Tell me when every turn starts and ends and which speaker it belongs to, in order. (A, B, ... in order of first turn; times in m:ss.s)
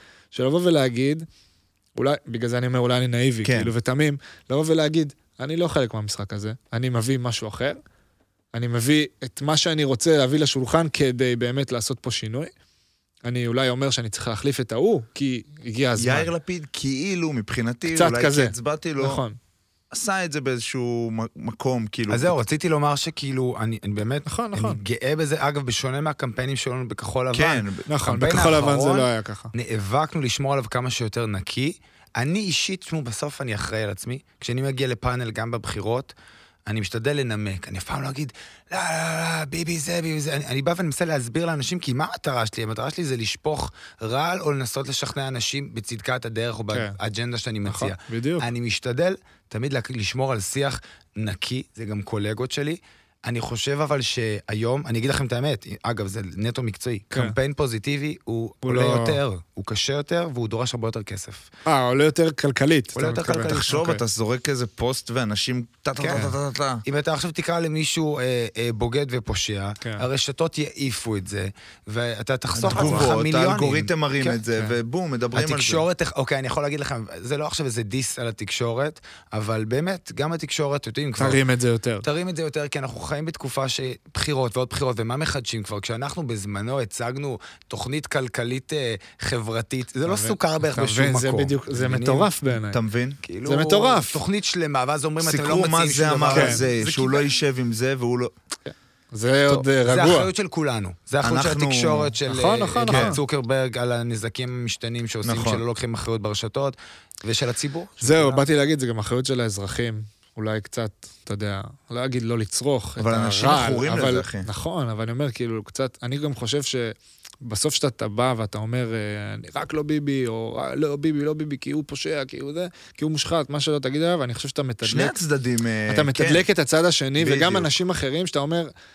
0:00.3-0:01.3 A
0:02.0-0:07.8 A
0:03.4-0:03.7 B
0:08.5-0:12.5 A
0:13.2-0:16.3 A
0:16.0-0:19.2 B
0:17.9-0:19.4 A
0:19.9-0:22.4 B
0:22.1-0:36.1 C
0:24.3-0:24.8 A
0:27.3-0:27.8 B
0:27.9-0:29.5 A
0:36.7-1:01.5 C
0:46.7-0:47.0 A
0:47.6-0:48.5 A
0:58.6-0:59.2 A
1:01.7-1:04.0 A
1:03.0-1:03.8 C
1:03.5-1:06.8 B
1:06.0-1:06.3 C
1:06.8-1:14.4 C
1:12.6-1:15.8 B
1:12.7-1:13.1 A
1:15.4-1:21.4 C
1:21.2-1:22.0 A
1:22.0-1:32.3 C
1:30.1-1:32.8 A
1:32.7-1:33.2 B
1:33.2-1:37.3 C
1:33.4-1:34.2 A
1:35.2-1:38.3 B
1:36.3-1:36.6 A
1:38.7-1:40.3 A
1:39.5-1:48.4 C
1:41.2-1:42.1 B
1:42.3-1:43.2 A
1:42.9-1:43.2 B
1:45.2-1:45.6 B
1:48.0-2:05.2 A
1:53.0-1:54.5 B
2:04.8-2:06.4 B
2:05.9-2:08.7 A
2:07.2-2:07.8 B